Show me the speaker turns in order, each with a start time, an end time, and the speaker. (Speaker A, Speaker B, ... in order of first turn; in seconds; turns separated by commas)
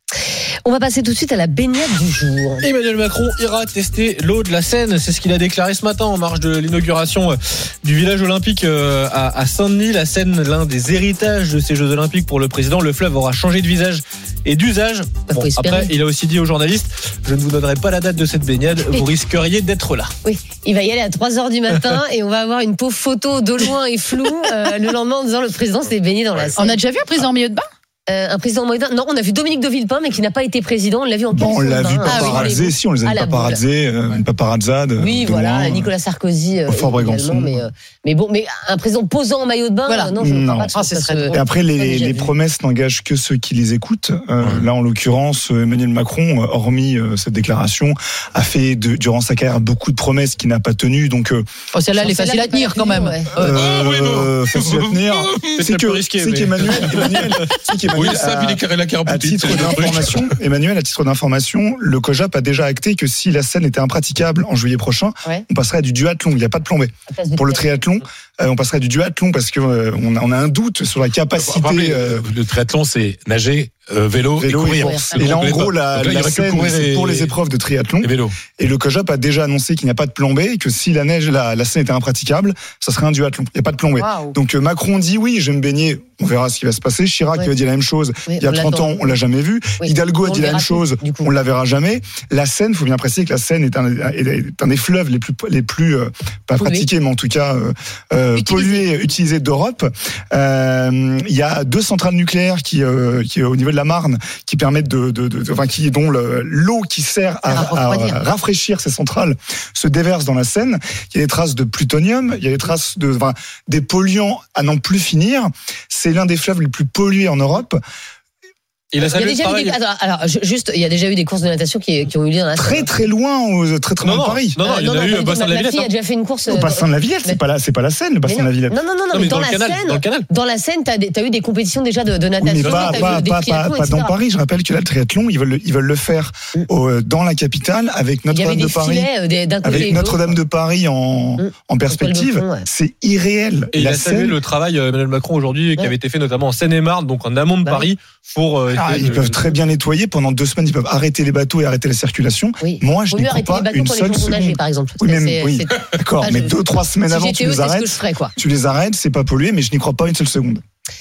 Speaker A: 0.6-2.7, Speaker B: 2.6-20.1, Speaker A: 15.3-15.9, Speaker A: 20.2-26.8, Speaker C: 26.6-27.6, Speaker A: 28.1-33.6, Speaker D: 31.3-35.9, Speaker C: 32.1-32.6, Speaker A: 35.0-42.3, Speaker D: 36.6-37.6, Speaker C: 39.9-40.2, Speaker D: 40.2-40.7, Speaker C: 40.7-41.4, Speaker D: 41.3-51.4, Speaker E: 44.4-44.7, Speaker C: 51.7-53.5, Speaker A: 52.0-53.3, Speaker D: 53.4-72.2, Speaker E: 53.4-55.6, Speaker B: 55.6-57.5, Speaker E: 57.9-60.2, Speaker A: 67.1-67.7, Speaker E: 71.4-77.3, Speaker D: 74.4-117.8, Speaker A: 74.8-75.2, Speaker E: 78.0-78.4, Speaker C: 84.0-84.3, Speaker A: 88.3-89.1, Speaker A: 89.8-91.3, Speaker A: 96.6-96.9, Speaker C: 98.4-98.8, Speaker C: 107.5-108.2, Speaker B: 118.9-119.8, Speaker A: 119.0-122.9, Speaker D: 122.5-124.6, Speaker B: 124.0-125.9, Speaker A: 124.6-127.4, Speaker D: 126.5-128.8, Speaker A: 128.2-134.1, Speaker B: 129.1-130.3, Speaker D: 132.4-139.1, Speaker B: 132.6-133.2, Speaker A: 138.3-140.4, Speaker D: 139.6-144.4, Speaker A: 141.4-142.7, Speaker B: 143.7-149.6, Speaker D: 148.7-160.6, Speaker A: 152.6-158.3